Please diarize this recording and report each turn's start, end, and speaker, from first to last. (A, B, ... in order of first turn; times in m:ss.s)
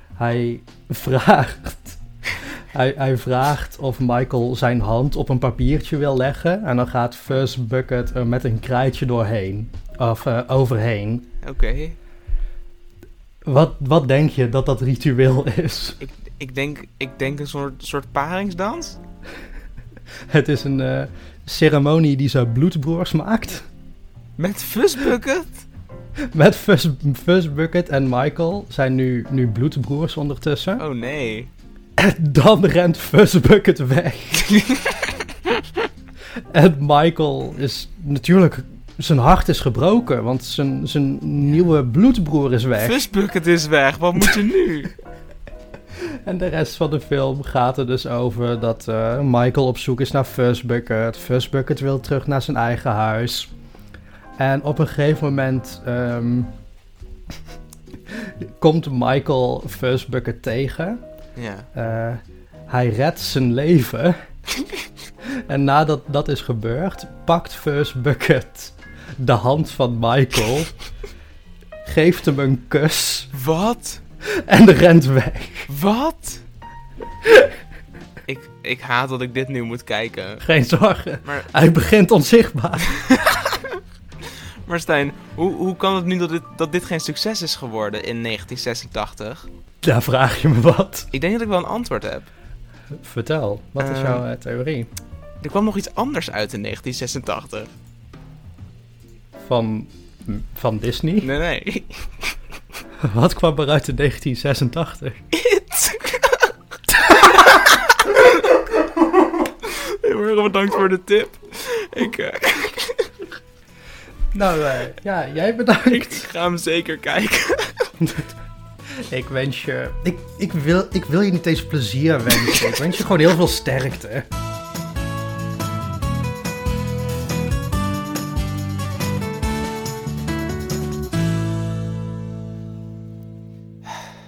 0:00.2-0:11.2 A
0:11.4-0:12.0 B
0:13.4-0:16.0 A
0:16.0-0:19.0 B
0:20.3-0:23.7 A
0:24.4-0:25.6 B
0:26.3-0:30.8 A
0:30.8-0:31.5 B
0:32.0-0:34.5 A
0:34.5-0:35.0 B
0:36.5-0:43.0 A
0:42.8-0:44.9 B
0:46.2-0:53.5 A
0:54.4-0:56.5 A
0:58.6-1:01.0 A
1:01.4-1:01.7 B
1:01.7-1:04.2 A
1:05.5-1:10.7 A
1:11.8-1:13.3 A
1:13.3-1:14.0 B
1:14.4-1:15.7 A
1:15.7-1:16.4 B
1:18.3-1:20.4 B
1:20.4-1:23.0 A
1:21.2-1:21.5 B
1:23.1-1:23.4 B
1:24.6-1:29.4 B
1:29.8-1:31.1 A
1:31.1-1:32.3 B
1:33.0-1:34.9 A
1:33.8-1:34.2 B
1:35.4-1:37.7 B
1:39.4-1:41.3 A
1:41.2-1:42.3 B
1:43.0-1:45.2 A
1:45.3-1:48.2 B
1:50.0-1:53.0 B
1:54.3-1:56.3 A
1:55.9-1:57.9 B
1:58.0-1:58.3 A
1:59.0-2:04.3 A